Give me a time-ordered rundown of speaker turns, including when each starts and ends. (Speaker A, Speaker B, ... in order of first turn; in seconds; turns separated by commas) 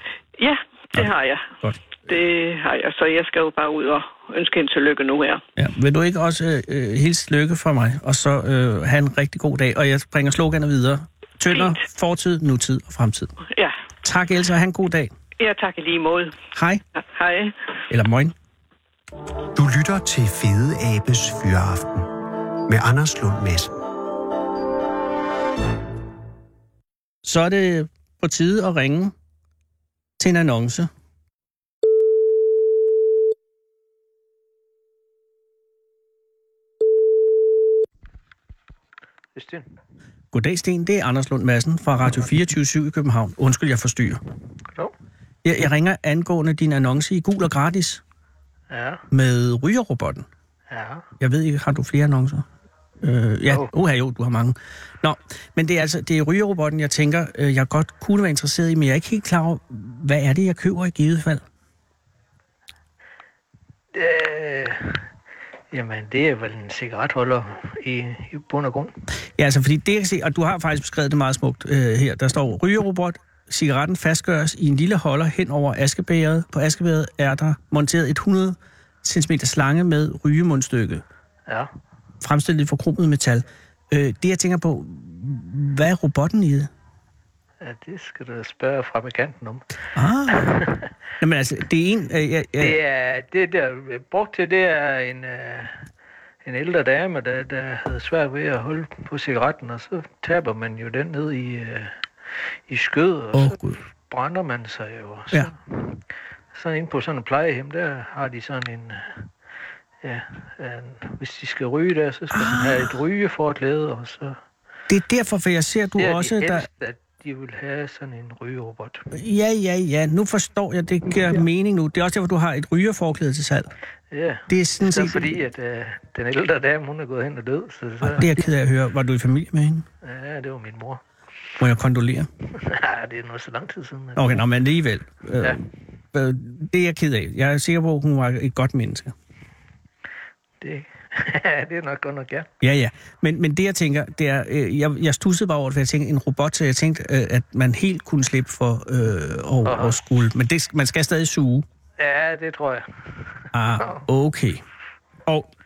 Speaker A: 0.4-5.4, Speaker B: 5.6-13.3, Speaker A: 11.5-11.8, Speaker A: 13.5-13.8, Speaker B: 14.0-15.1, Speaker A: 15.4-16.4, Speaker B: 16.6-16.8, Speaker A: 16.9-17.6, Speaker B: 17.9-18.3, Speaker C: 19.6-22.1, Speaker C: 22.7-23.7, Speaker B: 27.2-29.1, Speaker B: 30.2-30.9, Speaker D: 39.4-39.7, Speaker B: 40.3-44.2, Speaker B: 45.4-48.0, Speaker D: 48.7-49.0, Speaker B: 49.1-50.3, Speaker D: 50.7-51.1, Speaker B: 51.2-52.5, Speaker B: 53.0-61.4, Speaker D: 63.9-65.1, Speaker D: 65.7-68.9, Speaker B: 69.4-81.0, Speaker B: 82.2-86.7, Speaker D: 87.6-89.8, Speaker B: 90.0-90.6, Speaker D: 90.3-90.9, Speaker B: 91.2-92.8, Speaker D: 92.6-95.9, Speaker D: 96.4-102.0, Speaker D: 102.7-109.3, Speaker B: 103.3-103.8, Speaker D: 110.0-114.4, Speaker B: 112.3-112.9, Speaker B: 114.9-116.7, Speaker D: 116.0-119.1, Speaker B: 119.1-123.7, Speaker D: 124.1-128.4, Speaker B: 124.5-125.4, Speaker B: 128.0-129.9, Speaker D: 130.0-131.0, Speaker B: 131.6-132.3, Speaker D: 132.6-134.4, Speaker B: 134.2-135.6, Speaker B: 136.1-139.1, Speaker D: 140.6-142.5, Speaker B: 142.6-151.7, Speaker D: 149.7-150.0, Speaker D: 152.0-154.1, Speaker B: 153.5-154.6